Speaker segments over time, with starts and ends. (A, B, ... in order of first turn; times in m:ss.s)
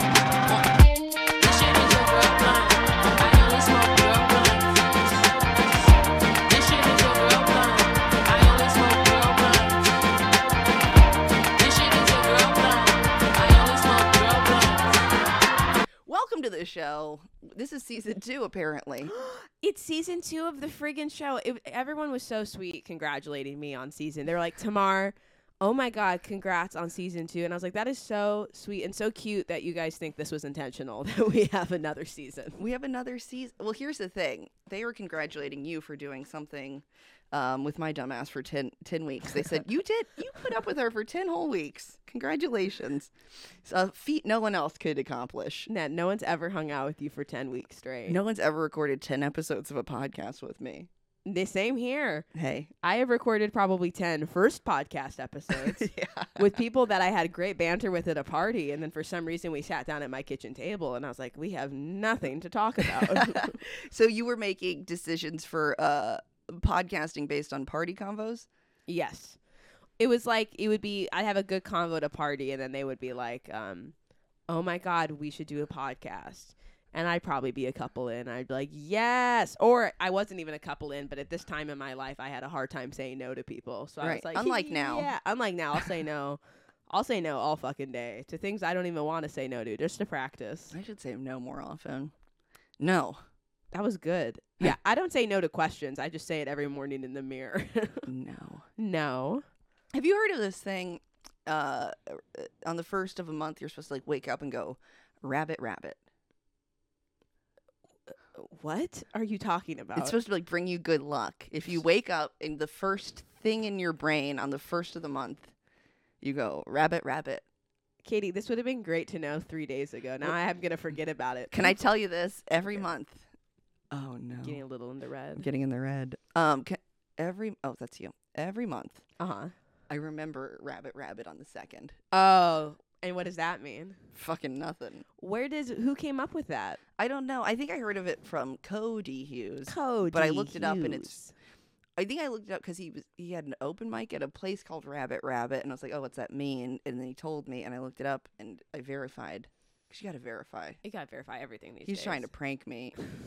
0:00.5-0:00.8 A
0:01.4-0:05.7 A
0:06.5-0:10.0 A
0:11.6-0:15.0 A
0:16.1-0:19.1 B
0:19.2-0:32.6 C
0:32.6-0:43.1 B
0:43.6-0:45.7 B
0:45.7-0:48.2 C
0:48.1-0:50.9 B
0:51.3-0:52.3 C
0:52.3-0:52.7 B
0:52.8-1:03.6 C
0:55.5-0:56.6 B
1:02.9-1:08.5 B
1:08.9-1:09.4 C
1:10.0-1:14.0 C
1:14.5-1:30.8 C
1:24.0-1:25.2 B
1:30.7-1:32.1 B
1:32.8-1:33.2 B
1:33.7-1:38.1 C
1:38.1-1:38.7 B
1:38.8-1:39.4 C
1:39.9-1:46.0 B
1:48.1-1:50.1 C
1:50.0-1:55.5 B
1:56.2-1:57.4 B
1:58.0-2:01.8 C
2:01.5-2:03.3 B
2:03.9-2:04.6 B
2:04.4-2:05.5 C
2:05.4-2:09.0 B
2:09.2-2:09.5 C
2:09.9-2:12.0 B
2:12.1-2:14.0 C
2:14.1-2:15.0 B
2:15.2-2:16.8 C
2:17.0-2:21.2 B
2:19.7-2:21.3 C
2:22.0-2:30.8 B
2:30.8-2:32.3 C
2:31.8-2:33.0 B